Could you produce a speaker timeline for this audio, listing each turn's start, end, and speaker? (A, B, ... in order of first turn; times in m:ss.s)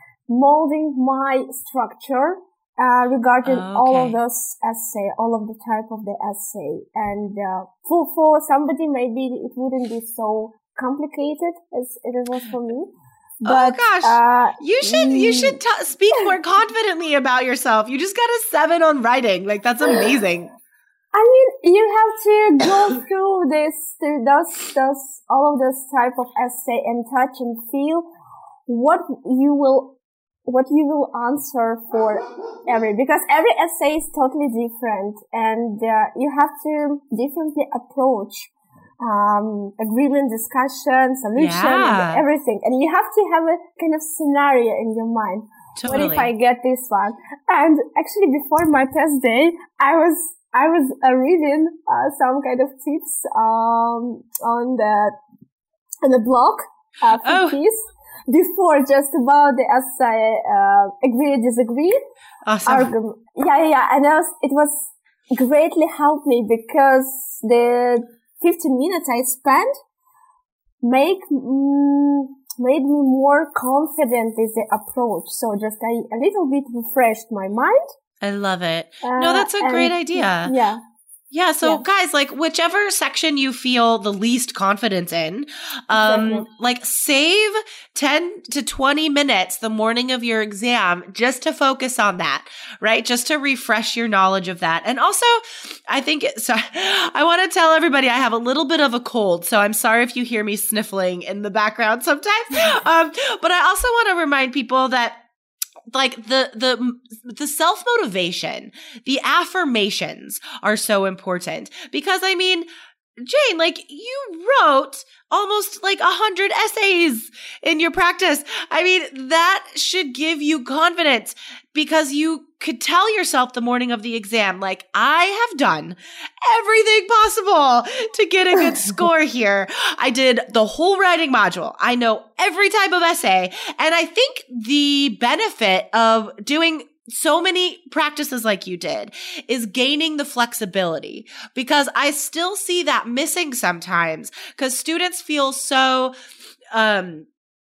0:00.3-0:12.9 A
0:03.4-0:04.2 B
0:13.4-0:15.6 A
0:13.4-0:20.5 B
0:21.1-0:28.0 A
0:28.7-0:38.5 A
0:39.0-0:55.2 A
0:41.4-0:42.2 B
0:45.8-0:46.3 B
0:56.0-1:02.0 A
0:57.2-0:57.6 B
1:02.4-1:02.9 B
1:02.7-1:09.7 A
1:10.8-1:17.8 A
1:18.2-1:20.5 B
1:19.0-1:20.8 A
1:21.3-1:45.2 B
1:25.9-1:26.5 A
1:45.9-1:52.7 B
1:53.2-2:26.1 B
2:26.7-2:27.3 B